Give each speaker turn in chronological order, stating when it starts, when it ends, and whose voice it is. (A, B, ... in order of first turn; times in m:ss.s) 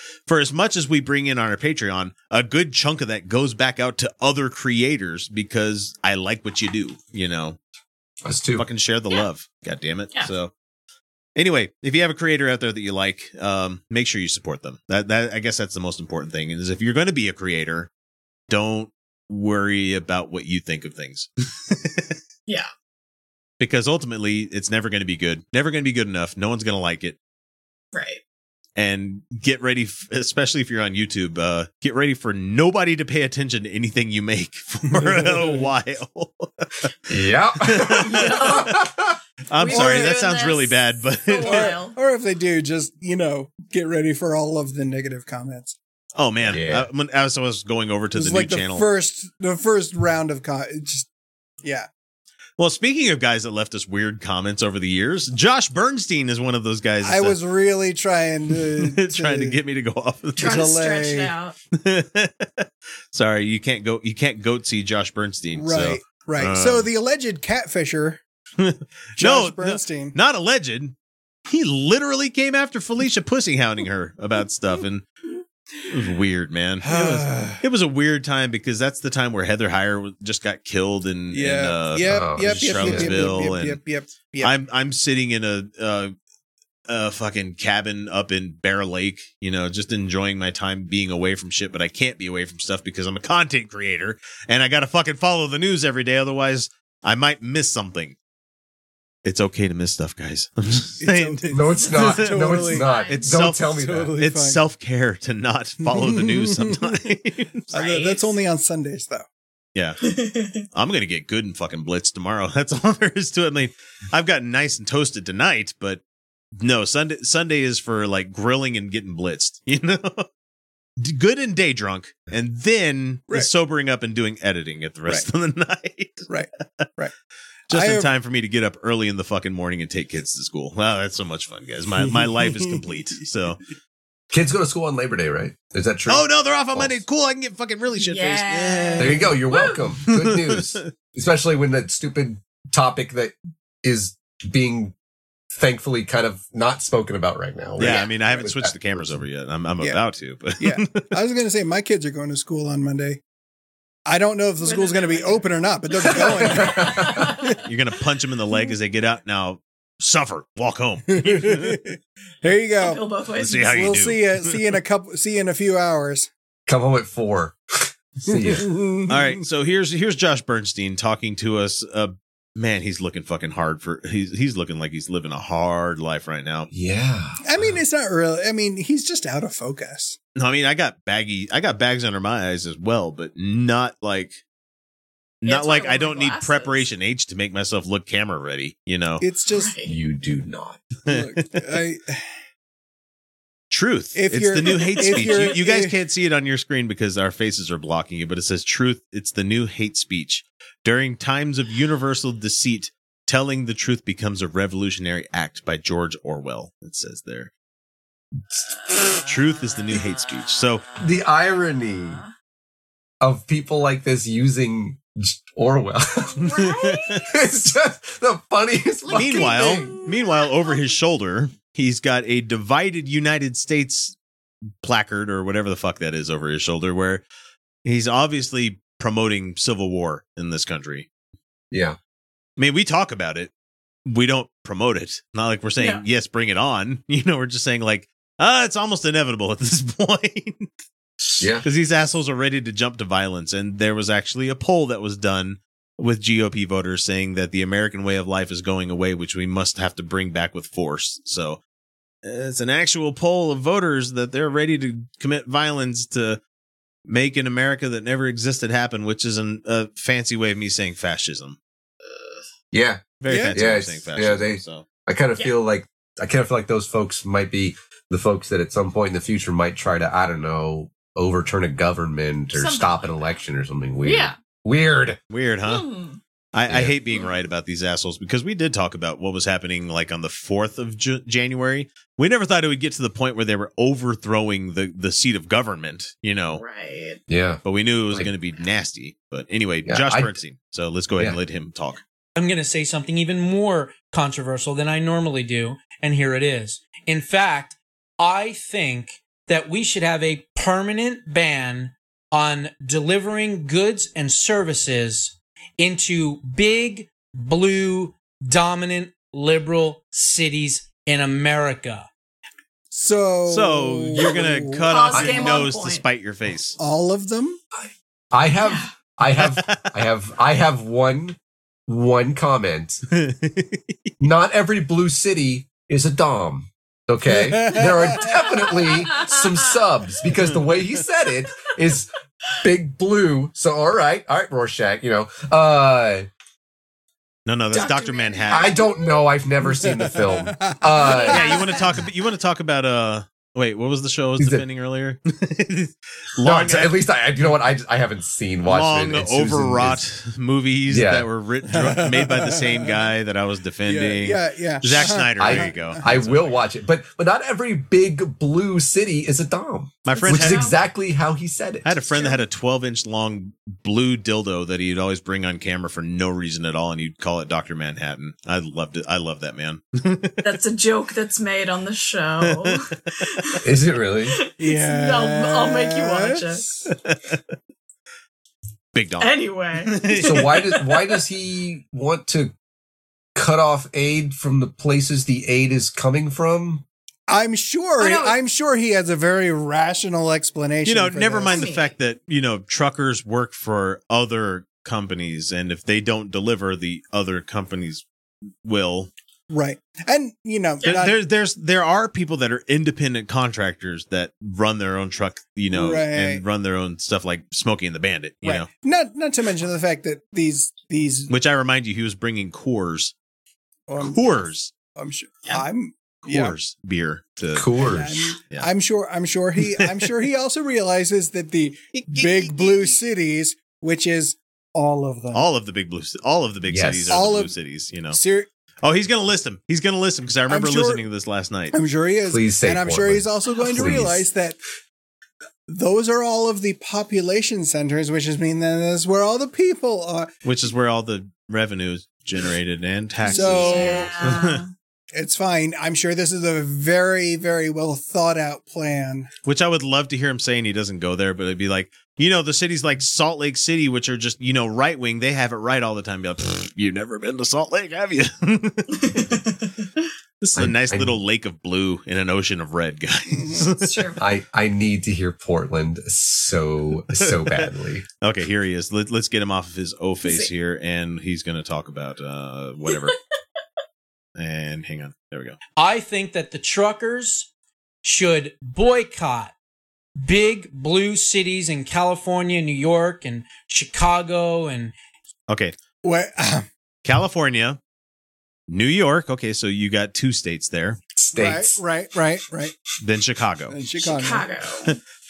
0:00.3-0:07.6 A
0:08.2-0:08.6 B
0:08.6-0:10.5 A
0:11.4-0:17.9 A
0:18.5-0:22.2 A
0:23.6-0:27.2 A
0:27.9-0:28.2 C
0:28.8-0:38.6 A
0:34.9-0:35.7 D
0:37.1-0:39.2 B
0:38.0-0:38.9 C
0:39.5-0:41.8 A
0:39.6-0:42.0 C
0:39.7-0:40.2 D
0:41.4-0:45.8 D
0:46.2-0:48.9 A
0:46.5-0:46.9 B
0:48.2-0:51.1 D
0:51.6-0:51.9 D
0:52.6-0:57.4 A
0:57.0-0:59.6 D
0:58.5-1:00.7 A
1:00.4-1:01.3 D
1:00.4-1:01.6 C
1:01.7-1:06.9 A
1:05.6-1:08.2 D
1:08.6-1:11.0 A
1:09.2-1:10.2 D
1:11.5-1:15.0 A
1:15.9-1:23.8 A
1:16.8-1:17.6 D
1:21.3-1:24.6 D
1:22.0-1:23.3 B
1:24.4-1:26.1 A
1:26.9-1:38.2 A
1:39.2-1:47.7 A
1:41.0-1:42.9 D
1:41.5-1:44.2 B
1:42.7-1:43.2 C
1:43.5-1:44.6 D
1:45.9-1:46.9 D
1:47.7-1:49.3 D
1:47.7-1:48.4 C
1:49.8-1:50.0 A
1:50.0-1:50.6 C
1:50.7-1:56.0 A
1:56.6-2:00.3 A
2:01.0-2:06.3 A
2:06.3-2:07.1 D
2:07.7-2:13.6 A
2:07.7-2:08.1 D
2:14.3-2:17.0 B
2:16.1-2:19.4 A
2:18.0-2:19.8 C
2:19.0-2:24.9 B
2:20.0-2:20.9 A
2:25.5-2:29.2 B
2:27.8-2:31.1 A
2:27.8-2:28.1 C
2:30.6-2:33.2 D
2:34.1-2:37.6 D
2:34.6-2:37.6 C
2:36.5-2:37.3 B
2:37.6-2:41.8 A
2:41.1-2:43.0 D
2:42.8-2:43.9 C
2:43.4-2:44.6 A
2:43.7-2:46.3 D
2:46.7-2:48.7 B
2:48.3-2:49.4 D
2:49.1-2:56.7 A
2:56.7-2:57.8 B
2:57.4-3:00.2 D
3:00.4-3:04.4 A
3:05.4-3:09.2 A
3:05.4-3:06.9 C
3:09.2-3:09.7 D
3:09.5-3:09.9 C
3:09.8-3:10.8 B
3:11.1-3:11.6 A
3:11.1-3:12.2 D
3:13.7-3:27.5 A
3:14.1-3:16.0 D
3:15.0-3:15.4 C
3:29.0-3:30.8 A
3:31.0-3:32.2 B
3:32.0-3:32.3 C
3:33.2-3:36.4 B
3:36.2-3:37.5 C
3:36.4-3:37.3 A
3:37.3-3:39.9 B
3:39.0-3:40.9 C
3:39.1-3:44.2 A
3:44.8-3:47.2 A
3:47.8-3:51.1 A
3:51.7-3:52.0 B
3:52.6-3:53.5 A
3:54.1-4:00.7 A
4:01.3-4:11.6 A
4:01.4-4:01.7 B
4:12.2-4:16.4 A
4:17.1-4:21.6 A
4:22.7-4:35.2 B
4:23.2-4:24.8 A
4:23.3-4:23.7 D
4:32.5-4:33.4 C
4:34.0-4:34.4 C
4:35.3-4:35.8 A
4:35.6-4:36.2 C
4:36.5-4:46.6 A
4:36.7-4:37.0 B
4:46.6-4:47.2 C
4:47.3-4:48.3 B
4:47.6-4:52.0 A
4:49.9-4:50.4 B
4:52.4-5:12.1 E
5:12.9-5:14.9 D
5:13.5-5:16.8 A
5:14.9-5:16.0 C
5:15.1-5:15.6 B
5:16.8-5:17.6 D
5:17.8-5:23.0 B
5:18.6-5:18.9 C
5:19.3-5:20.1 A
5:23.1-5:23.9 A
5:24.2-5:36.3 B
5:27.3-5:28.2 D
5:28.2-5:29.5 C
5:30.4-5:30.7 A
5:37.5-5:38.8 A
5:37.7-5:39.1 C
5:38.5-5:41.6 B
5:39.6-5:40.9 D
5:41.0-5:41.9 C
5:41.2-5:47.0 A
5:44.4-5:44.6 B
5:46.4-5:50.0 B
5:48.7-5:56.6 A
5:50.9-5:51.3 B
5:51.7-5:52.9 D
5:53.8-5:56.1 D
5:55.4-6:02.0 B
6:00.1-6:00.7 A
6:00.1-6:00.8 C
6:01.8-6:10.4 A
6:02.1-6:02.4 C
6:10.4-6:13.7 C
6:12.4-6:12.9 A
6:13.6-6:14.4 B
6:14.3-6:16.7 C
6:14.6-6:16.9 D
6:16.9-6:17.4 A
6:18.9-6:20.5 A
6:19.2-6:21.2 C
6:20.2-6:22.5 B
6:23.4-6:26.8 B
6:27.3-6:31.7 D
6:28.0-6:28.4 C
6:30.8-6:38.0 A
6:31.5-6:31.9 C
6:38.6-6:39.1 A
6:39.5-6:41.2 D
6:40.8-6:48.7 A
6:45.7-6:46.4 D
6:48.4-6:51.3 D
6:51.3-6:53.1 A
6:53.9-6:56.6 D
6:54.0-6:54.7 A
6:56.2-6:57.7 A
6:57.6-6:58.3 B
6:57.8-7:05.5 D
6:59.6-7:00.1 A
7:01.9-7:03.0 A
7:05.3-7:08.2 A
7:06.7-7:07.2 B
7:07.1-7:07.5 D
7:08.1-7:08.5 D
7:08.8-7:11.8 A
7:10.5-7:11.0 D
7:11.7-7:14.6 D
7:12.2-7:14.3 B
7:15.7-7:20.3 D
7:20.4-7:24.6 A
7:23.2-7:24.7 C
7:23.2-7:24.4 D
7:25.1-7:29.3 D
7:29.4-7:39.4 A
7:39.0-7:39.7 C
7:40.4-7:44.1 A
7:40.6-7:41.2 B
7:43.8-7:44.2 C
7:44.2-7:48.1 B
7:47.1-7:47.7 A
7:48.2-7:53.2 A
7:50.2-7:50.5 C
7:54.4-7:55.6 A
7:55.8-7:57.5 E
7:58.0-7:59.5 E
8:00.2-8:05.0 E
8:05.5-8:05.8 A
8:06.0-8:06.7 D
8:07.0-8:07.8 A
8:08.7-8:11.0 A
8:11.1-8:11.8 B
8:11.4-8:12.8 D
8:13.0-8:13.8 A
8:13.7-8:14.5 D
8:14.0-8:15.0 C